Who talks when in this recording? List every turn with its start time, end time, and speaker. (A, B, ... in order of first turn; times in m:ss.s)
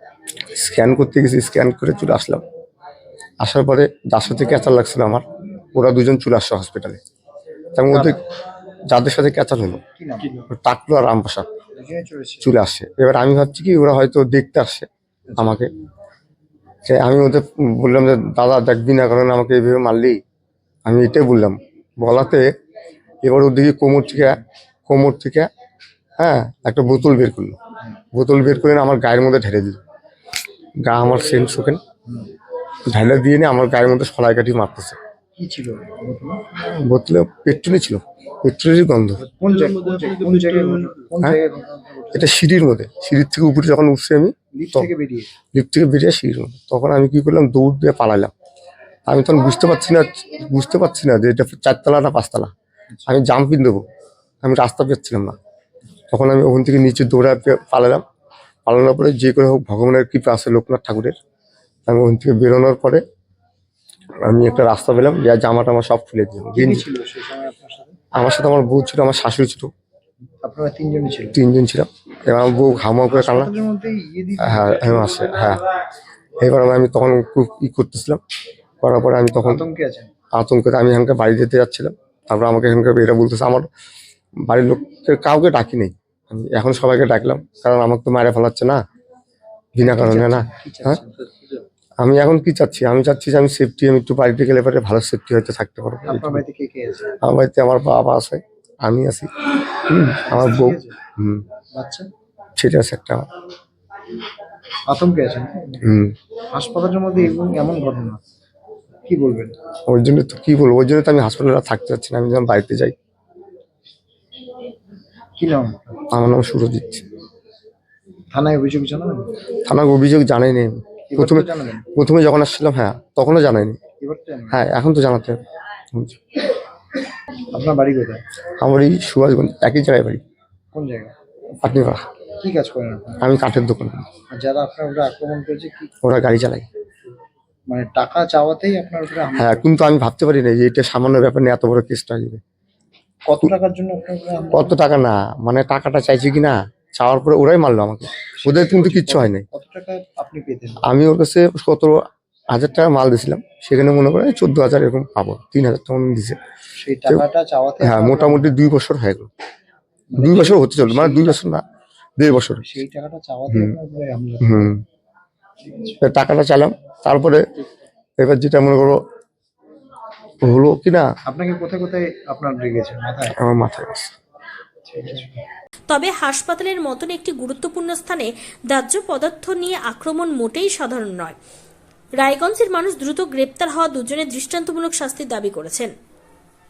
0:00.5-0:02.4 A
0:03.4-0:05.2 A
0:05.7-0:07.0 A
0:07.8-0:08.2 A
0:07.9-0:08.2 B
0:08.9-0:09.8 A
0:10.0-0:10.4 B
0:10.5-0:11.5 A
0:11.8-0:12.5 B
0:12.4-0:15.7 A
0:15.3-0:15.6 B
0:16.8-0:20.2 A
0:20.8-0:22.4 A
0:23.2-0:25.5 A
0:26.2-0:27.6 A
0:28.1-0:29.8 A
0:30.8-0:31.8 A
0:32.9-0:35.0 A
0:35.4-0:36.4 B
0:36.8-0:39.2 A
0:39.2-0:42.4 B
0:42.1-0:44.9 A
0:44.5-0:45.3 B
0:45.5-0:48.3 A
0:49.1-0:52.5 A
0:53.1-0:53.8 A
0:54.4-0:55.4 A
0:56.1-0:58.0 A
0:58.6-1:01.2 A
1:01.9-1:03.0 A
1:04.2-1:06.8 A
1:06.6-1:07.9 B
1:08.1-1:09.7 A
1:10.4-1:11.4 B
1:11.3-1:13.5 A
1:13.1-1:15.2 B
1:14.4-1:15.6 A
1:16.4-1:18.2 A
1:18.8-1:19.6 A
1:19.4-1:20.1 B
1:20.3-1:23.7 A
1:24.4-1:28.8 A
1:29.7-1:31.0 A
1:29.8-1:31.1 B
1:32.0-1:36.4 A
1:36.0-1:37.1 B
1:37.2-1:39.3 A
1:39.9-1:41.4 A
1:40.3-1:41.0 B
1:41.7-1:42.1 B
1:42.6-1:43.2 A
1:44.9-1:45.8 B
1:45.8-1:46.1 A
1:46.5-1:48.2 B
1:49.1-1:49.5 B
1:49.9-1:52.9 A
1:55.4-1:55.9 B
1:56.1-1:57.0 A
1:58.3-1:59.2 B
1:59.6-2:03.8 A
2:01.1-2:01.8 B
2:04.0-2:04.6 B
2:04.5-2:05.4 A
2:07.5-2:08.2 B
2:08.6-2:10.2 A
2:10.7-2:11.1 B
2:11.6-2:12.0 A
2:12.4-2:13.2 B
2:13.2-2:14.0 A
2:14.3-2:15.9 B
2:16.0-2:16.6 A
2:17.7-2:19.6 B
2:19.4-2:22.4 A
2:23.2-2:24.7 B
2:24.5-2:29.4 A
2:28.4-2:30.8 B
2:30.8-2:36.4 A
2:36.8-2:38.5 B
2:37.8-2:39.3 A
2:40.1-2:41.4 B
2:40.2-2:41.6 A
2:42.2-2:42.7 A
2:42.6-2:44.7 B
2:44.4-2:44.8 A
2:45.6-2:46.0 B
2:46.0-2:47.4 A
2:48.2-2:49.0 A
2:50.4-2:51.0 A
2:51.3-2:53.3 B
2:53.4-2:54.1 A
2:54.8-2:55.4 B
2:55.9-3:01.3 C
3:02.2-3:05.9 C